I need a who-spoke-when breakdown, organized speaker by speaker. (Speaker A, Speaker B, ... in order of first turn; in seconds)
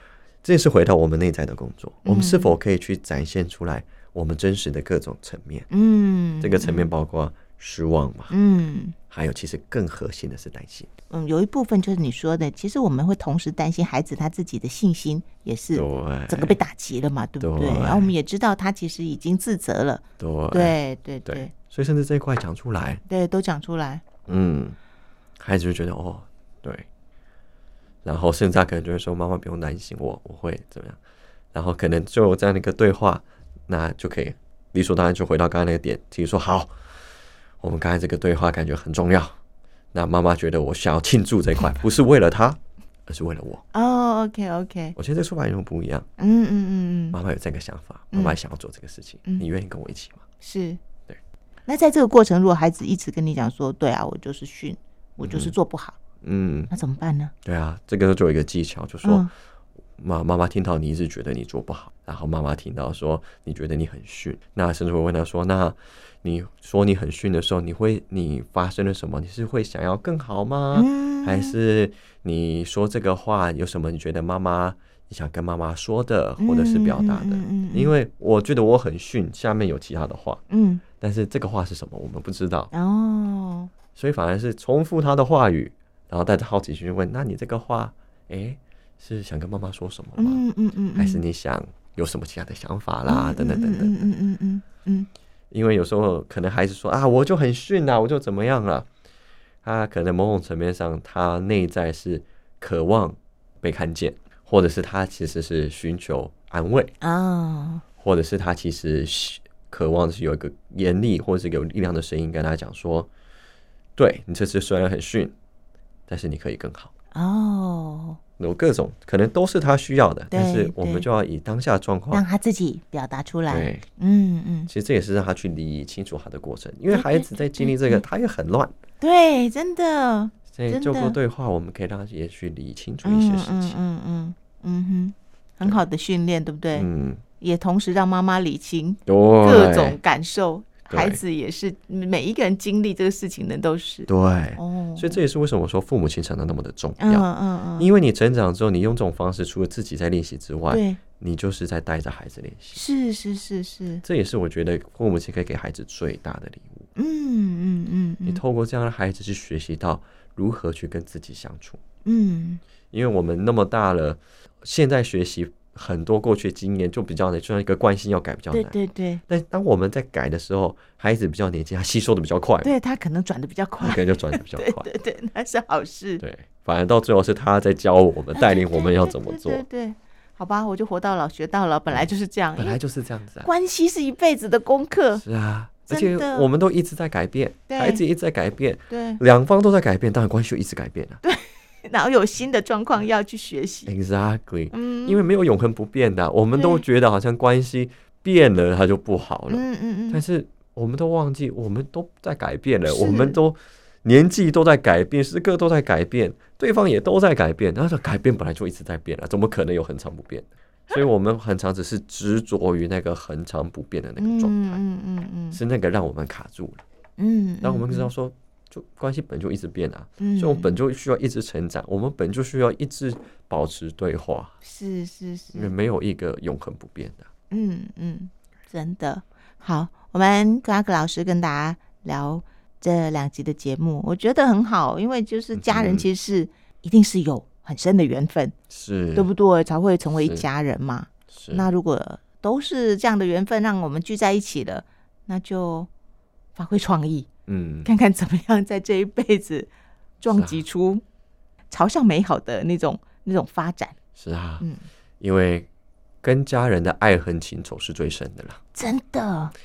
Speaker A: 0.4-5.7, 6.4-8.3, 9.1-10.9, 15.7-16.6, 17.4-18.1, 20.2-23.0, 24.3-24.8, 25.4-26.9, 28.0-31.0, 31.5-36.7, 37.6-39.4, 39.9-43.6, 45.0-46.0, 47.1-50.2, 55.2-55.5, 56.2-56.7, 57.4-59.3, 60.0-80.4, 81.0-82.7, 84.0-90.4, 91.0-94.1, 95.5-98.9, 99.6-106.9, 108.0-113.1, 114.0-115.3, 116.1-116.9, 118.4-122.2, 123.5-123.8, 124.7-128.7, 130.5-133.8, 136.7-137.2, 139.1-140.0, 140.9-141.2, 144.1-147.2, 147.8-152.8, 154.0-156.9, 158.2-161.8, 162.9-168.8, 169.3-172.7, 173.8-174.9, 176.2-179.6, 181.9-183.5, 185.2-191.2, 193.8-214.8, 215.5-216.8, 217.6-224.5, 225.5-227.3, 235.5-236.1, 238.7-239.3, 240.1-240.4, 241.3-241.7, 247.5-247.9, 250.3-250.6, 254.2-254.6, 255.2-255.7, 256.2-258.6
Speaker B: 2.0-2.6, 5.7-6.9, 8.3-8.9, 11.1-21.5, 23.1-24.0, 43.7-44.9, 46.2-47.2, 48.1-48.4, 50.4-50.8, 51.6-56.0, 56.7-57.3, 59.0-59.3, 70.7-71.5, 76.4-77.9, 80.5-80.8, 82.7-83.7, 90.2-91.2, 93.1-95.1, 107.0-107.8, 117.1-118.2, 120.3-121.0, 122.1-124.7, 126.9-128.0, 129.0-131.2, 133.0-136.9, 137.4-145.2, 147.0-147.9, 150.7-151.0, 152.7-154.0, 156.9-158.4, 162.0-162.6, 168.5-169.2, 172.6-176.2, 178.3-182.8, 183.4-185.2, 185.9-186.5, 187.7-188.0, 188.9-189.2, 191.2-193.9, 194.7-195.2, 196.5-196.8, 199.5-200.2, 202.8-203.4, 214.2-215.6, 217.2-218.1, 220.2-220.8, 224.6-225.7, 227.5-238.5, 239.1-245.9, 246.6-247.3, 247.8-249.7, 250.2-251.0, 251.7-253.9, 258.7-259.5